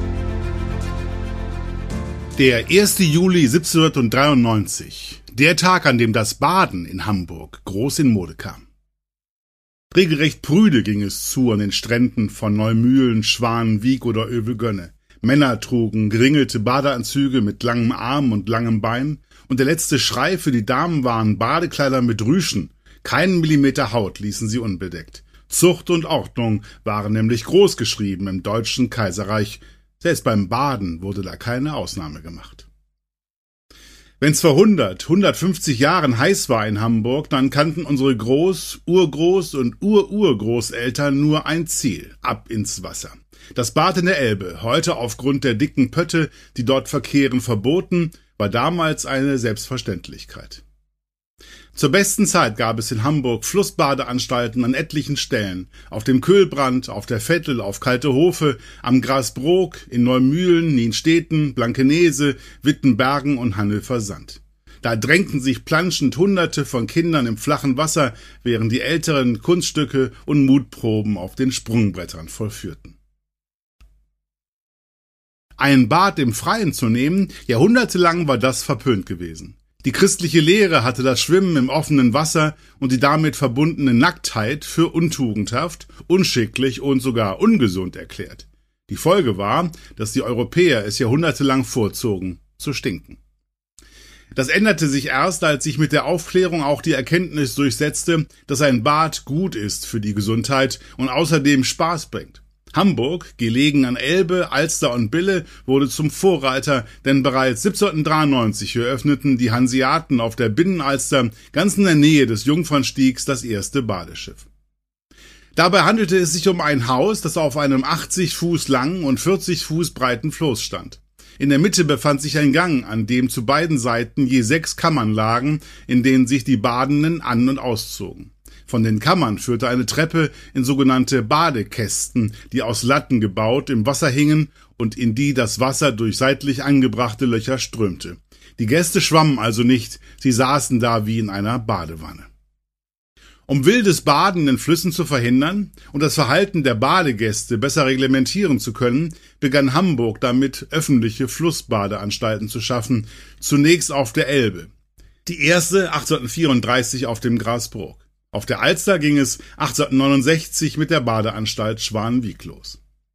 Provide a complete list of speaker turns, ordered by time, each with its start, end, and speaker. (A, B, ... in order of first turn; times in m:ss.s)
0:02.4-0:08.6 A
0:09.9-0:32.7 A
0:34.2-0:50.6 A
0:51.7-1:13.0 A
1:15.6-1:33.2 A
1:34.3-1:54.4 A
1:55.6-2:22.3 A
2:23.5-2:34.7 A
2:35.2-2:42.8 A